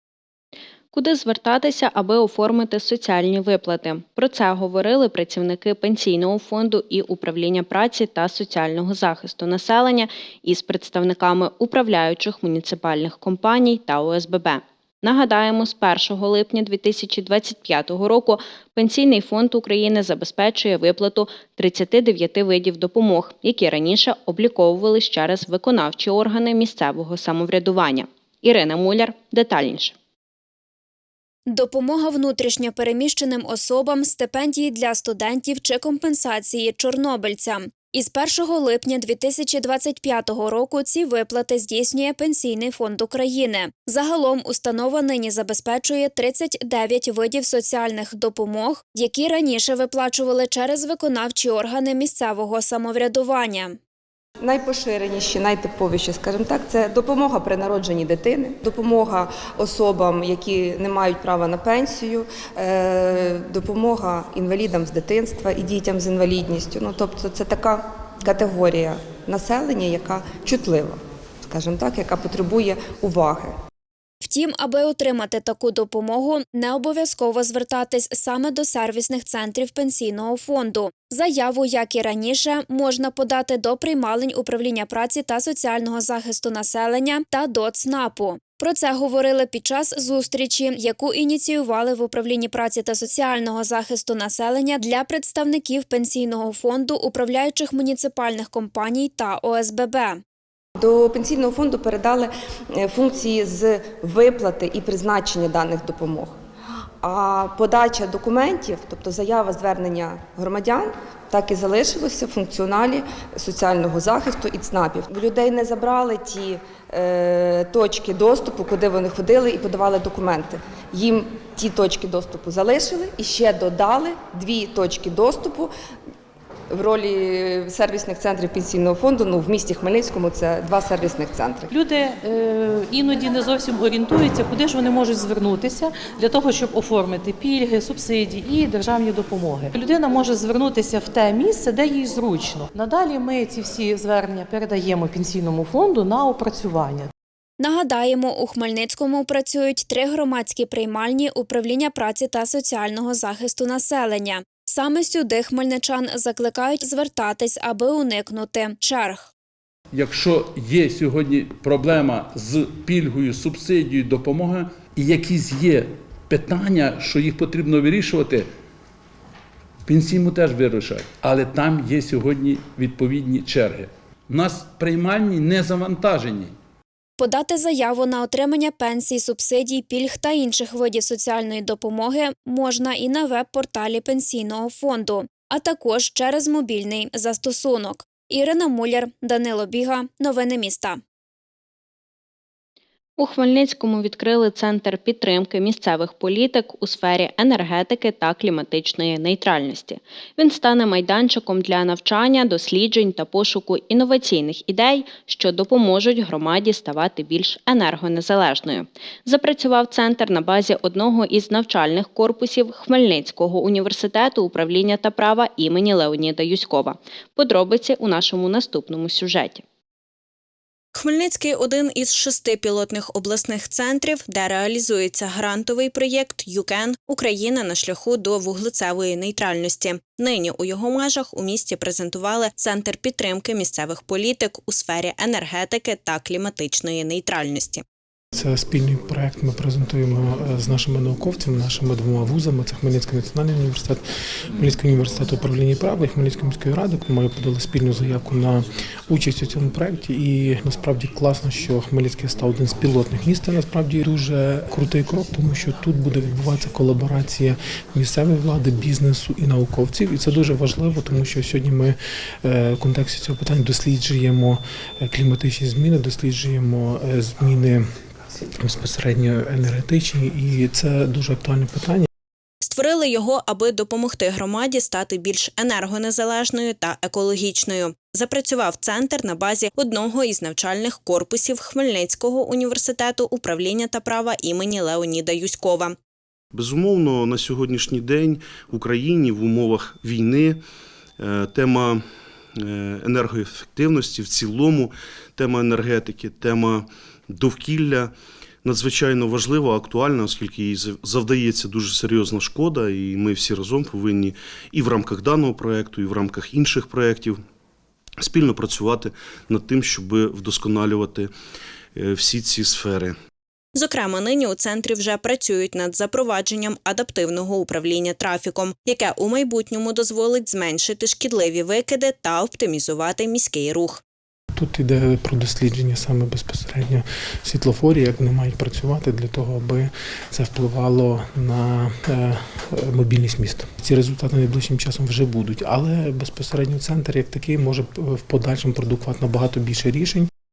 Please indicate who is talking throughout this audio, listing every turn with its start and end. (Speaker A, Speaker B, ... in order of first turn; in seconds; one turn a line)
Speaker A: 0.9-29.9
Speaker B: 31.5-53.8
Speaker C: 54.4-73.5
Speaker B: 74.2-100.2
Speaker C: 100.8-106.4
Speaker C: 107.0-125.7
Speaker C: 126.7-131.7
Speaker D: 131.7-147.1
Speaker B: 147.6-159.3
Speaker E: 159.9-168.5
Speaker E: 169.9-176.5
Speaker B: 177.2-191.0
Speaker A: 193.2-219.6
Speaker A: 221.0-237.8
Speaker F: 238.3-244.0
Speaker F: 244.6-267.8
Speaker F: 268.6-272.1
Speaker A: 272.7-285.9
Speaker G: 286.5-290.6
Speaker G: 291.2-292.0
Speaker G: 292.6-298.1
Speaker G: 298.6-307.4
Speaker G: 308.2-311.3
Speaker G: 311.9-313.2
Speaker A: 313.8-324.0
Speaker F: 324.6-340.3